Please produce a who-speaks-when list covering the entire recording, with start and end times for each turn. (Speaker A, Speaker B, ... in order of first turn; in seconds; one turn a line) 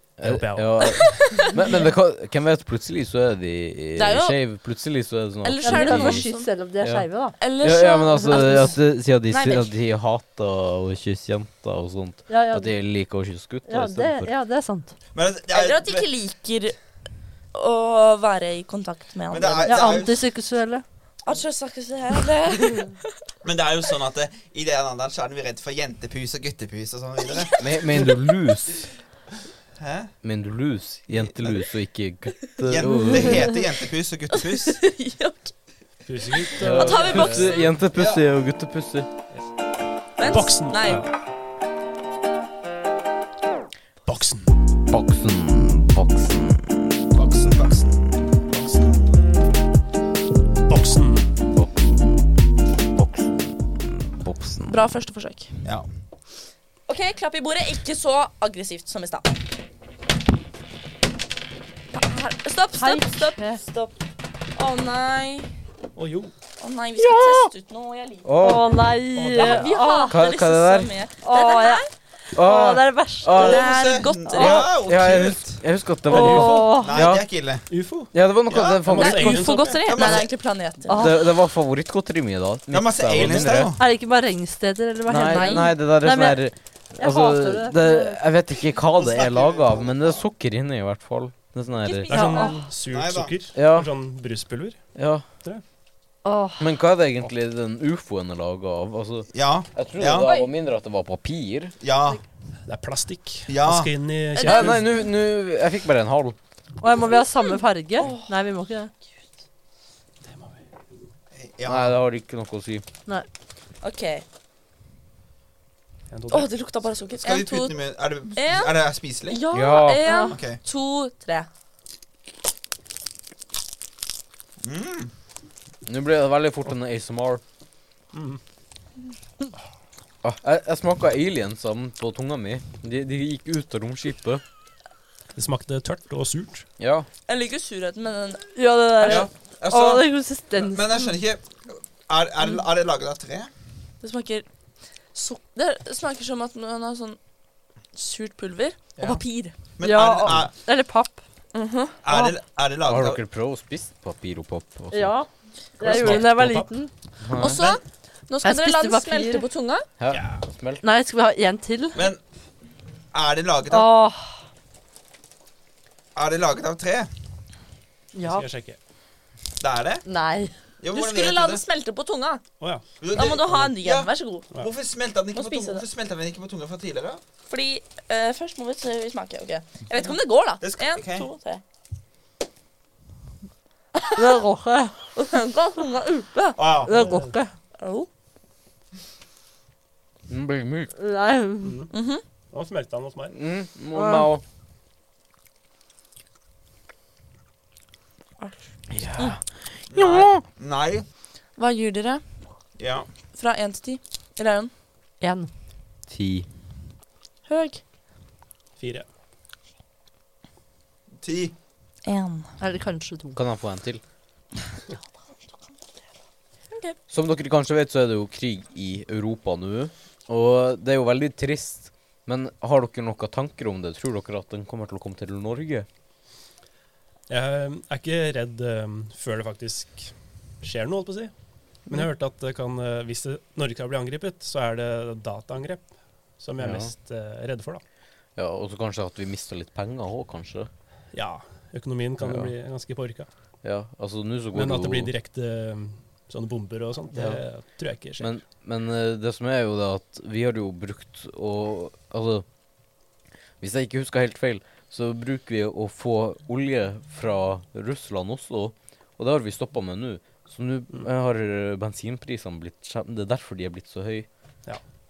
Speaker A: 0.2-14.3
Speaker B: 0.2-1.2
Speaker C: 0.8-1.8
Speaker C: 4.0-4.4
Speaker C: 5.4-6.5
Speaker D: 5.6-7.4
Speaker C: 7.4-8.8
Speaker C: 9.3-9.7
Speaker D: 12.3-12.8
Speaker D: 13.7-14.9
Speaker E: 15.1-16.1
Speaker C: 15.5-16.8
Speaker C: 17.5-20.0
Speaker E: 19.3-20.2
Speaker D: 19.6-20.8
Speaker C: 21.2-23.0
Speaker E: 23.4-28.1
Speaker A: 27.6-28.9
Speaker E: 29.8-30.1
Speaker A: 30.2-33.5
Speaker E: 31.1-31.6
Speaker E: 32.6-34.8
Speaker C: 34.3-35.5
Speaker B: 36.1-37.6
Speaker A: 36.6-39.1
Speaker C: 36.7-37.7
Speaker E: 37.9-38.2
Speaker C: 40.2-41.1
Speaker B: 40.2-41.1
Speaker B: 44.0-44.5
Speaker A: 44.9-47.0
Speaker E: 47.1-49.0
Speaker B: 50.7-51.3
Speaker A: 51.5-52.2
Speaker A: 52.9-54.7
Speaker C: 54.7-55.5
Speaker C: 56.9-59.3
Speaker C: 61.9-63.9
Speaker D: 62.8-63.6
Speaker C: 64.6-65.5
Speaker B: 66.0-66.3
Speaker C: 66.6-68.3
Speaker A: 67.0-67.5
Speaker A: 68.2-68.8
Speaker D: 68.4-70.2
Speaker B: 69.1-69.7
Speaker C: 69.3-71.9
Speaker A: 70.1-70.9
Speaker D: 71.2-71.8
Speaker D: 72.3-73.5
Speaker A: 72.3-73.7
Speaker C: 73.3-74.7
Speaker E: 73.3-75.6
Speaker D: 74.3-74.7
Speaker A: 74.5-77.2
Speaker B: 76.1-76.7
Speaker D: 76.1-77.0
Speaker E: 76.8-77.7
Speaker B: 77.7-79.8
Speaker A: 78.1-79.5
Speaker E: 78.5-78.8
Speaker C: 79.0-81.1
Speaker E: 79.6-80.3
Speaker D: 80.9-81.2
Speaker A: 80.9-83.7
Speaker E: 82.7-83.8
Speaker D: 83.8-86.4
Speaker A: 85.1-92.4
Speaker C: 85.3-85.7
Speaker D: 87.0-88.2
Speaker E: 89.0-90.2
Speaker C: 91.8-92.6
Speaker B: 92.1-94.8
Speaker D: 92.1-92.5
Speaker E: 92.9-93.3
Speaker A: 93.5-93.9
Speaker A: 95.0-95.2
Speaker D: 96.2-96.7
Speaker A: 96.6-101.8
Speaker E: 99.3-100.3
Speaker C: 100.2-100.5
Speaker E: 101.8-102.2
Speaker B: 102.7-104.8
Speaker E: 103.5-103.9
Speaker C: 104.3-104.8
Speaker A: 104.4-106.4
Speaker D: 106.8-108.9
Speaker C: 107.4-108.3
Speaker B: 110.3-110.6
Speaker E: 111.3-111.9
Speaker A: 111.7-112.9
Speaker C: 113.8-114.2
Speaker B: 116.1-116.5
Speaker C: 116.3-117.8
Speaker E: 117.2-119.4
Speaker C: 118.3-118.7
Speaker C: 119.3-121.5
Speaker A: 119.5-120.1
Speaker D: 120.0-120.3
Speaker E: 120.3-120.6
Speaker E: 124.6-125.1
Speaker A: 125.9-127.4
Speaker B: 128.1-128.4
Speaker A: 130.2-134.4
Speaker B: 135.3-136.7
Speaker A: 136.8-137.1
Speaker C: 137.3-138.5
Speaker D: 138.6-141.1
Speaker E: 139.0-143.5
Speaker C: 144.0-144.5
Speaker C: 145.1-147.2
Speaker C: 147.9-149.5
Speaker E: 149.0-149.2
Speaker E: 149.8-150.5
Speaker D: 149.8-151.2
Speaker C: 151.5-152.0
Speaker E: 152.0-153.2
Speaker D: 152.1-152.4
Speaker A: 152.9-155.2
Speaker D: 154.9-156.9
Speaker B: 155.8-156.7
Speaker A: 157.2-157.7
Speaker C: 157.4-159.9
Speaker D: 158.4-159.5
Speaker A: 160.0-160.8
Speaker B: 160.1-160.4
Speaker D: 160.8-162.1
Speaker E: 163.1-163.9
Speaker D: 163.7-164.3
Speaker E: 166.2-167.1
Speaker D: 168.2-168.4
Speaker B: 168.2-168.8
Speaker E: 169.6-170.1
Speaker D: 170.1-170.5
Speaker E: 170.8-171.6
Speaker C: 170.9-172.4
Speaker E: 173.0-177.2
Speaker C: 173.1-174.5
Speaker C: 175.3-175.8
Speaker C: 177.5-181.6
Speaker E: 180.6-181.3
Speaker C: 184.0-184.2
Speaker D: 184.2-185.1
Speaker C: 185.2-186.6
Speaker E: 186.6-187.1
Speaker D: 186.8-187.5
Speaker B: 187.0-187.3
Speaker C: 187.8-188.1
Speaker A: 190.3-190.9
Speaker D: 191.0-191.8
Speaker B: 191.6-191.9
Speaker C: 191.9-192.2
Speaker B: 192.5-193.3
Speaker A: 193.3-194.4
Speaker D: 193.9-194.3
Speaker A: 198.9-200.4
Speaker E: 199.9-201.1
Speaker C: 201.6-202.2
Speaker E: 202.8-203.1
Speaker C: 203.3-204.7
Speaker D: 205.2-205.5
Speaker A: 206.1-206.5
Speaker C: 207.5-207.8
Speaker B: 208.8-209.1
Speaker E: 211.2-211.5
Speaker C: 212.0-212.5
Speaker D: 212.6-213.4
Speaker A: 213.3-214.0
Speaker C: 216.7-217.0
Speaker A: 217.1-225.9
Speaker B: 227.3-231.3
Speaker B: 231.9-237.8
Speaker A: 236.6-236.9
Speaker A: 238.4-240.7
Speaker B: 241.1-243.3
Speaker A: 242.2-242.5
Speaker A: 243.6-245.1
Speaker B: 244.5-248.3
Speaker A: 247.1-247.4
Speaker A: 248.2-252.4
Speaker A: 253.6-264.3